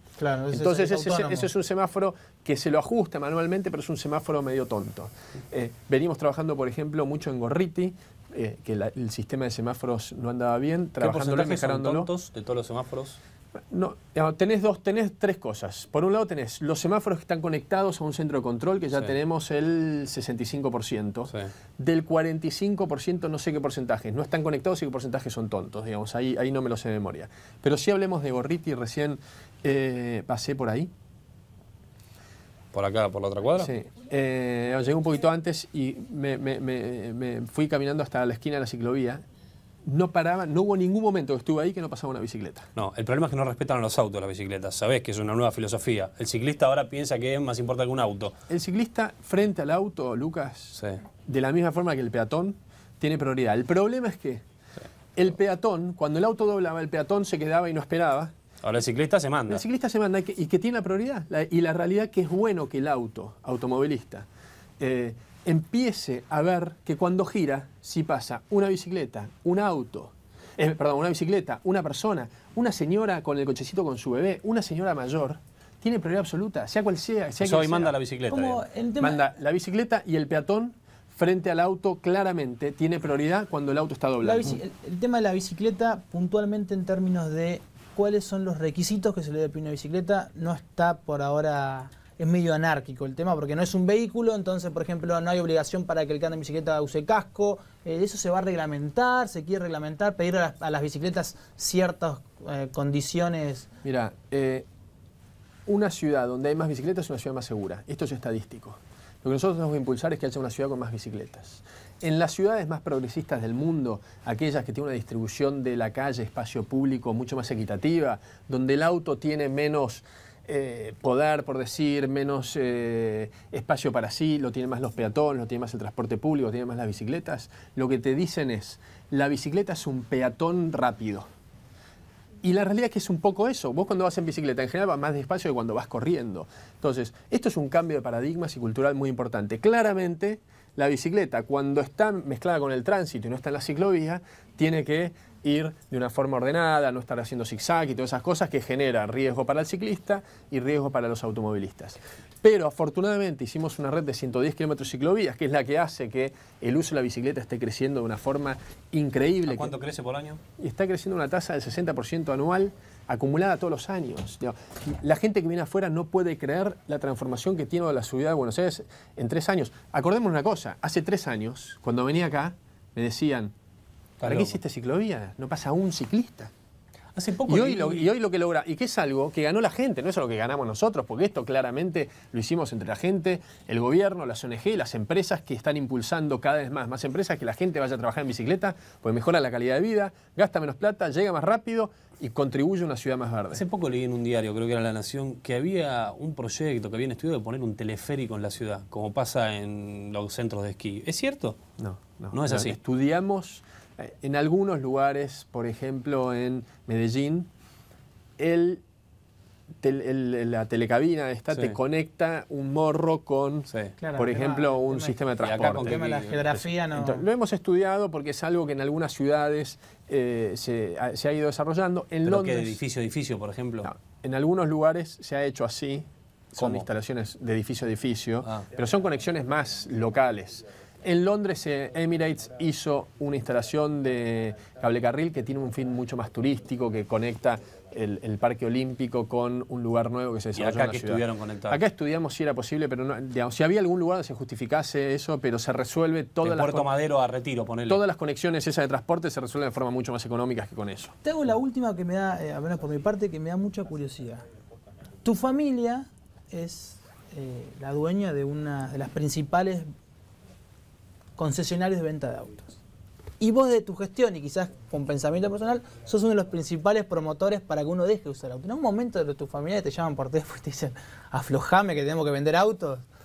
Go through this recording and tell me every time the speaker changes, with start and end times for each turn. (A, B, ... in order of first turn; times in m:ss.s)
0:00.2-0:01.5 A
0:00.5-0:12.1 B
0:11.0-0:13.2 C
0:13.7-0:30.9 B
0:32.7-0:33.7 C
0:33.6-0:39.2 B
0:39.9-0:42.7 B
0:42.8-0:48.4 C
0:48.5-0:54.4 B
0:55.2-0:58.3 B
0:58.6-0:59.6 C
0:59.5-1:04.3 B
1:04.8-1:18.0 B
1:17.4-1:18.6 C
1:18.3-1:19.2 A
1:19.0-1:24.6 B
1:24.2-1:43.7 A
1:43.8-1:44.7 B
1:45.7-2:11.3 B
2:12.4-2:39.7 B
2:39.5-2:40.4 C
2:40.6-2:53.5 B
2:54.2-2:54.6 C
2:54.2-2:56.5 B
2:57.2-2:58.1 C
2:57.5-3:13.6 B
3:13.5-3:21.6 C
3:21.8-3:27.5 B
3:22.3-3:22.8 C
3:28.4-3:28.8 B
3:29.8-3:36.0 B
3:34.0-3:37.2 A
3:35.4-3:36.4 C
3:36.6-3:42.8 B
3:42.2-3:43.9 C
3:43.8-4:06.9 B
3:46.6-3:46.9 C
4:00.6-4:01.8 C
4:06.4-4:08.0 C
4:07.9-4:11.2 B
4:11.2-4:14.4 A
4:15.2-4:19.9 A
4:21.4-4:22.8 A
4:23.4-4:33.0 A